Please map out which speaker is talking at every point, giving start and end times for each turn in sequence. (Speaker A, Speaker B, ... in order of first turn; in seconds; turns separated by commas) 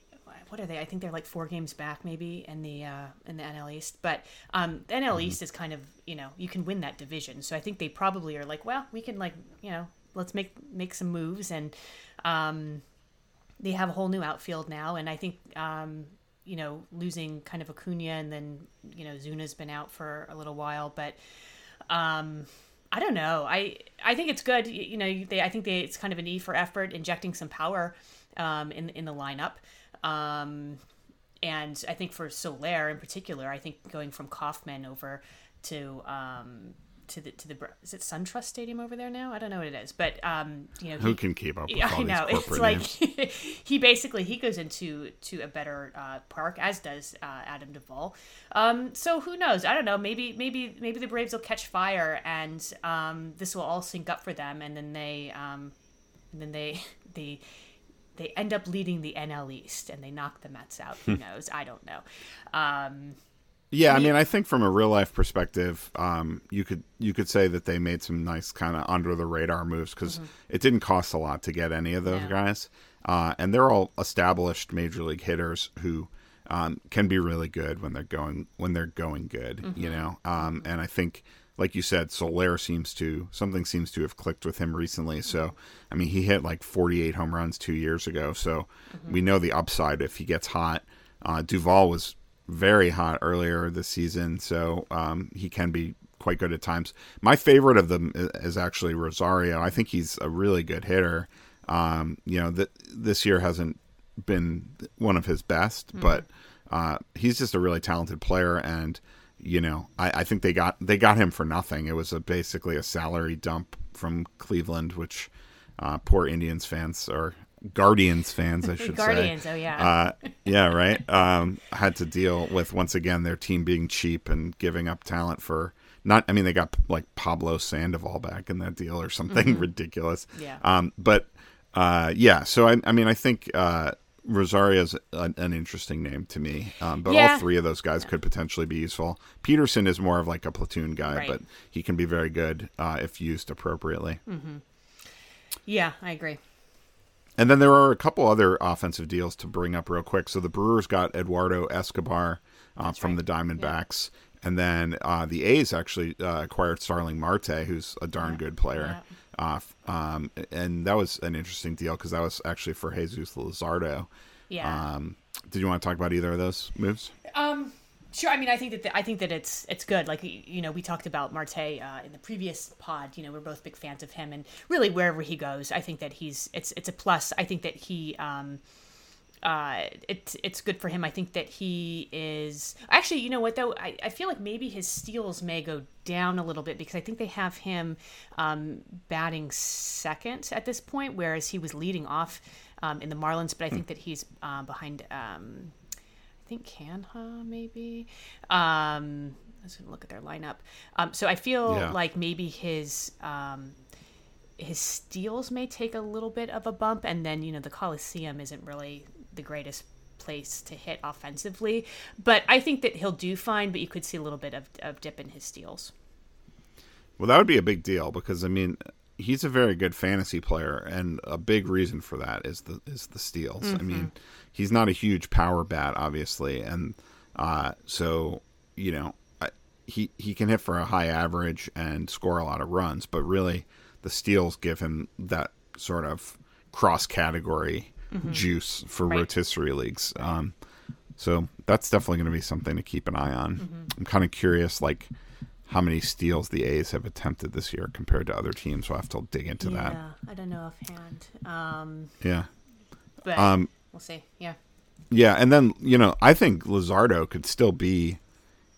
Speaker A: 0.3-12.8, Speaker A: 13.6-21.2, Speaker A: 21.9-30.8, Speaker A: 31.4-55.7, Speaker B: 41.0-42.9, Speaker A: 56.3-57.4, Speaker A: 58.2-63.2, Speaker B: 63.7-144.2, Speaker A: 63.9-64.2, Speaker A: 72.1-72.3, Speaker A: 79.6-80.6, Speaker A: 88.9-89.2, Speaker A: 106.0-106.2, Speaker A: 118.7-120.0, Speaker A: 129.3-129.7, Speaker A: 130.3-130.6, Speaker A: 137.1-137.5, Speaker A: 141.1-141.4, Speaker A: 144.3-144.6, Speaker A: 145.7-146.4, Speaker B: 147.4-164.1, Speaker A: 152.8-153.7, Speaker A: 158.2-159.0, Speaker A: 164.5-164.8, Speaker B: 164.6-167.1, Speaker A: 167.3-178.6, Speaker A: 179.4-195.8, Speaker A: 196.5-203.8, Speaker B: 201.7-201.9, Speaker A: 204.6-215.9, Speaker B: 217.2-240.5, Speaker A: 223.6-224.1, Speaker A: 238.1-238.4, Speaker B: 241.2-245.1, Speaker A: 243.6-243.9, Speaker B: 245.7-250.0, Speaker A: 249.6-252.2, Speaker B: 252.2-252.5, Speaker A: 253.2-254.6, Speaker B: 253.3-253.7, Speaker B: 255.1-258.2